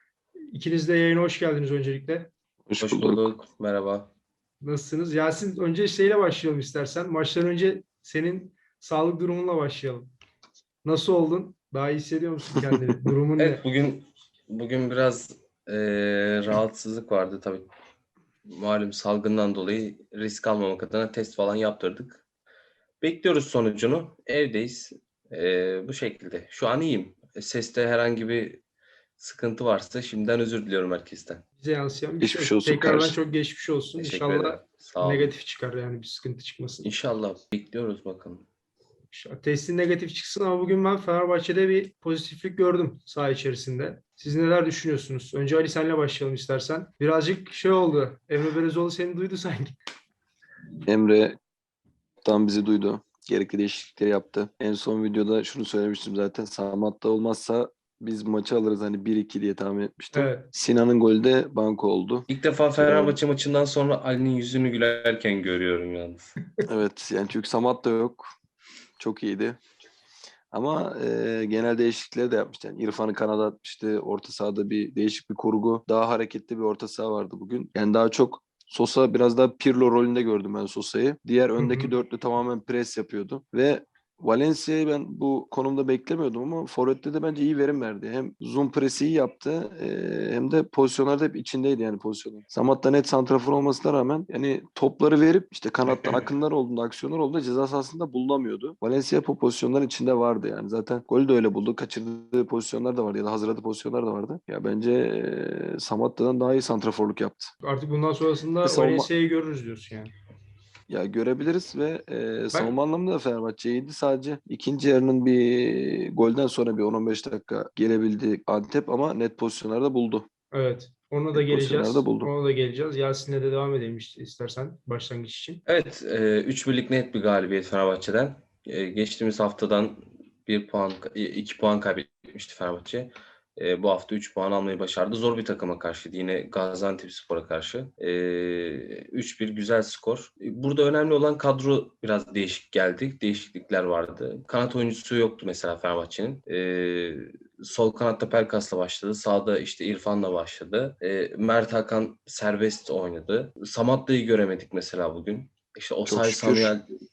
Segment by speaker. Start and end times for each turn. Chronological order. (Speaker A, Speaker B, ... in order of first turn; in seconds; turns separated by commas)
Speaker A: 0.5-2.3, Speaker B: 2.7-3.3, Speaker C: 2.8-4.1, Speaker A: 4.6-10.1, Speaker A: 10.8-13.6, Speaker B: 12.6-13.0, Speaker C: 13.4-17.7, Speaker C: 18.5-22.2, Speaker C: 23.0-28.6, Speaker C: 29.2-31.4, Speaker A: 31.6-36.9, Speaker B: 32.2-33.2, Speaker C: 34.0-35.3, Speaker C: 36.8-38.5, Speaker A: 39.1-49.8, Speaker B: 50.9-51.4, Speaker B: 52.2-62.3, Speaker A: 60.1-60.5, Speaker C: 62.3-66.3, Speaker B: 62.8-63.2, Speaker B: 66.7-68.3, Speaker B: 69.0-69.6, Speaker B: 70.5-107.5, Speaker A: 81.6-81.9, Speaker C: 95.8-96.3, Speaker A: 107.6-110.1, Speaker B: 108.6-109.1, Speaker B: 110.9-120.3, Speaker A: 120.5-125.6, Speaker B: 121.3-122.3, Speaker C: 125.7-156.8, Speaker B: 156.1-156.8